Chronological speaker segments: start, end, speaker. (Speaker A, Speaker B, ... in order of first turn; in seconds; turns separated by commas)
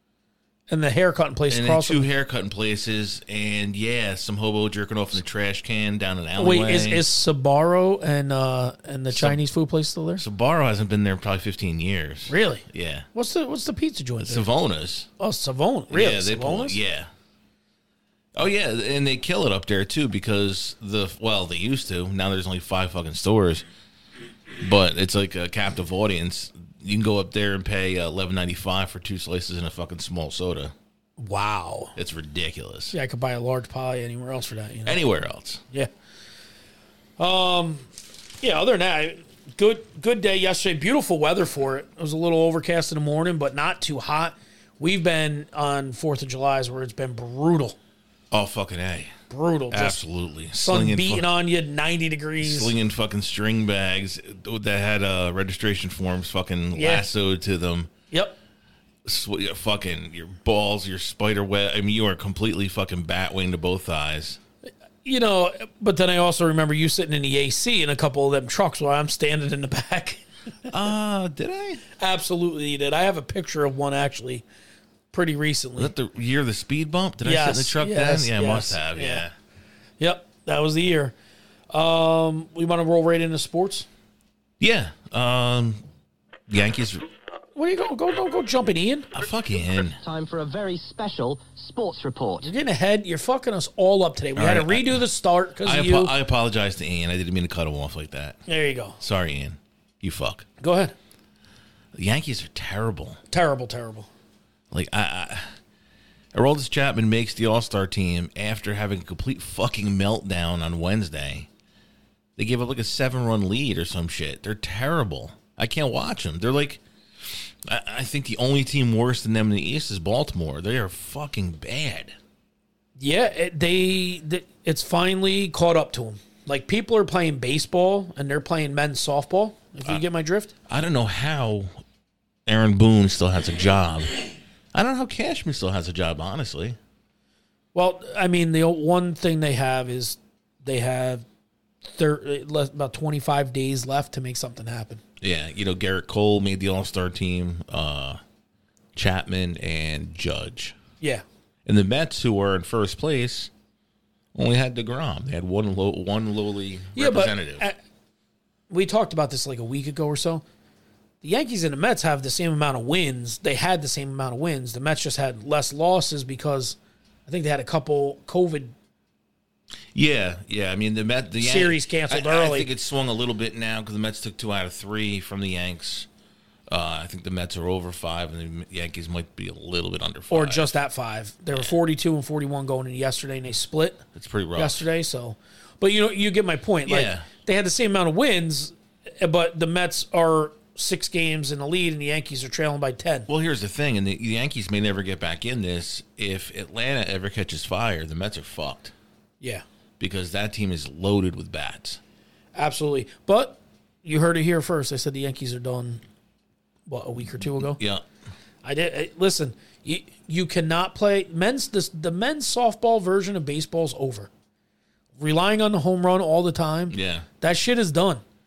Speaker A: 0.7-2.0, Speaker B: 1.5-7.0, Speaker A: 6.4-10.2, Speaker B: 9.1-9.4, Speaker B: 10.2-13.1, Speaker A: 12.3-14.4, Speaker B: 14.2-15.1, Speaker A: 15.2-16.8, Speaker B: 15.9-17.1, Speaker B: 18.3-23.6, Speaker B: 24.6-30.7, Speaker A: 31.2-31.9, Speaker B: 31.9-32.9, Speaker A: 32.9-35.0, Speaker B: 34.9-35.6, Speaker A: 37.2-37.9, Speaker A: 38.4-47.8, Speaker B: 48.3-49.1, Speaker A: 49.3-52.7, Speaker B: 49.7-51.2, Speaker B: 52.4-57.9, Speaker A: 56.7-57.1, Speaker A: 58.1-58.4, Speaker B: 59.0-64.4, Speaker A: 65.0-70.2, Speaker B: 70.7-71.8, Speaker A: 72.0-74.4, Speaker A: 75.1-75.9, Speaker B: 75.8-79.3, Speaker A: 77.2-79.2, Speaker A: 80.0-81.1, Speaker A: 81.7-83.9, Speaker B: 84.6-85.8, Speaker B: 86.5-87.0, Speaker A: 87.5-89.1, Speaker B: 89.1-90.0, Speaker C: 90.0-92.5, Speaker A: 92.4-96.1, Speaker B: 94.3-95.0, Speaker B: 95.6-98.4, Speaker A: 98.5-99.0, Speaker B: 99.0-100.5, Speaker A: 100.6-100.9, Speaker B: 101.9-103.2, Speaker A: 103.3-104.1, Speaker B: 104.7-105.5, Speaker B: 106.3-111.5, Speaker B: 112.4-122.1, Speaker A: 123.0-130.5, Speaker B: 130.7-131.8, Speaker B: 132.4-134.1, Speaker B: 134.7-136.8, Speaker A: 137.7-141.2, Speaker A: 141.9-145.0, Speaker B: 145.2-148.2, Speaker B: 148.9-150.8, Speaker B: 151.6-153.5, Speaker B: 154.3-157.6, Speaker A: 156.9-157.8, Speaker A: 158.7-160.4, Speaker A: 161.2-168.7, Speaker B: 169.9-176.1, Speaker A: 171.4-172.7, Speaker B: 176.7-180.8, Speaker A: 180.3-184.0, Speaker B: 184.1-184.8, Speaker A: 184.6-193.3, Speaker B: 186.8-187.2, Speaker B: 193.3-198.9, Speaker B: 200.0-202.0, Speaker A: 202.5-206.0, Speaker A: 206.9-207.8, Speaker B: 207.8-208.0, Speaker A: 208.6-214.3, Speaker A: 215.2-218.2, Speaker B: 216.9-217.2